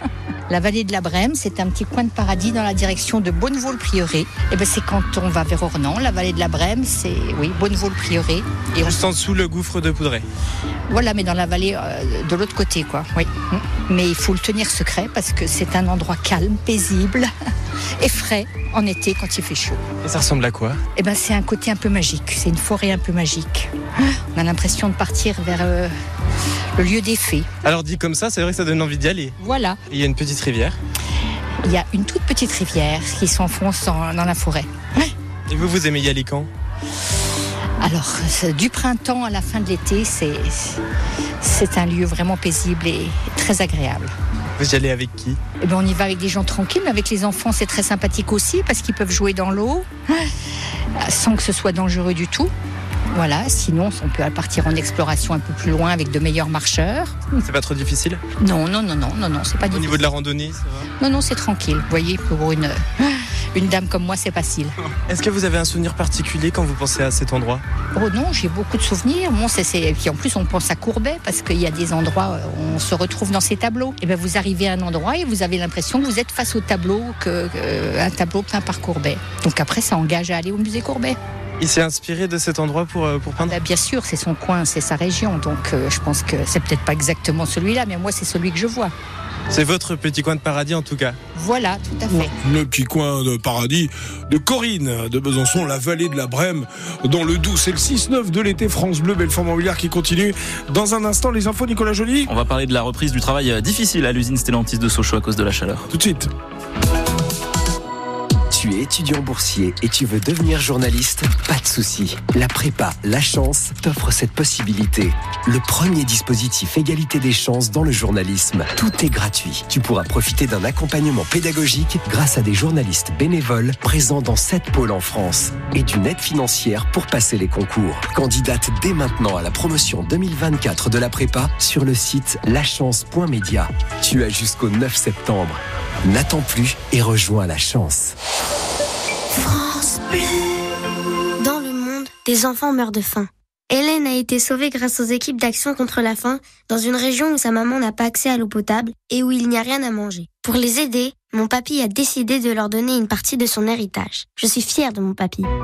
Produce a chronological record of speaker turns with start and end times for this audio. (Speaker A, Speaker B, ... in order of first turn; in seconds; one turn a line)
Speaker A: 0.5-9.0
Speaker B: 8.8-10.3
Speaker A: 10.9-17.3
Speaker A: 18.0-19.8
Speaker B: 20.0-20.8
Speaker A: 21.0-25.9
Speaker A: 26.8-27.5
Speaker B: 27.6-29.4
Speaker A: 29.4-29.8
Speaker B: 29.9-30.8
Speaker A: 31.6-35.1
Speaker B: 35.5-36.5
Speaker A: 37.8-40.8
Speaker A: 41.4-44.1
Speaker B: 44.6-45.4
Speaker A: 45.6-50.3
Speaker A: 51.0-52.5
Speaker A: 53.1-57.3
Speaker B: 57.4-58.2
Speaker A: 58.4-60.1
Speaker B: 59.7-60.9
Speaker A: 61.0-64.8
Speaker B: 65.1-67.6
Speaker A: 67.9-81.2
Speaker B: 81.6-83.6
Speaker A: 83.4-88.9
Speaker B: 89.5-91.2
Speaker A: 91.3-92.3
Speaker C: 92.1-102.3
Speaker D: 102.3-105.9
Speaker C: 105.9-106.3
Speaker E: 108.5-138.2
Speaker F: 139.4-140.3
Speaker F: 141.4-155.5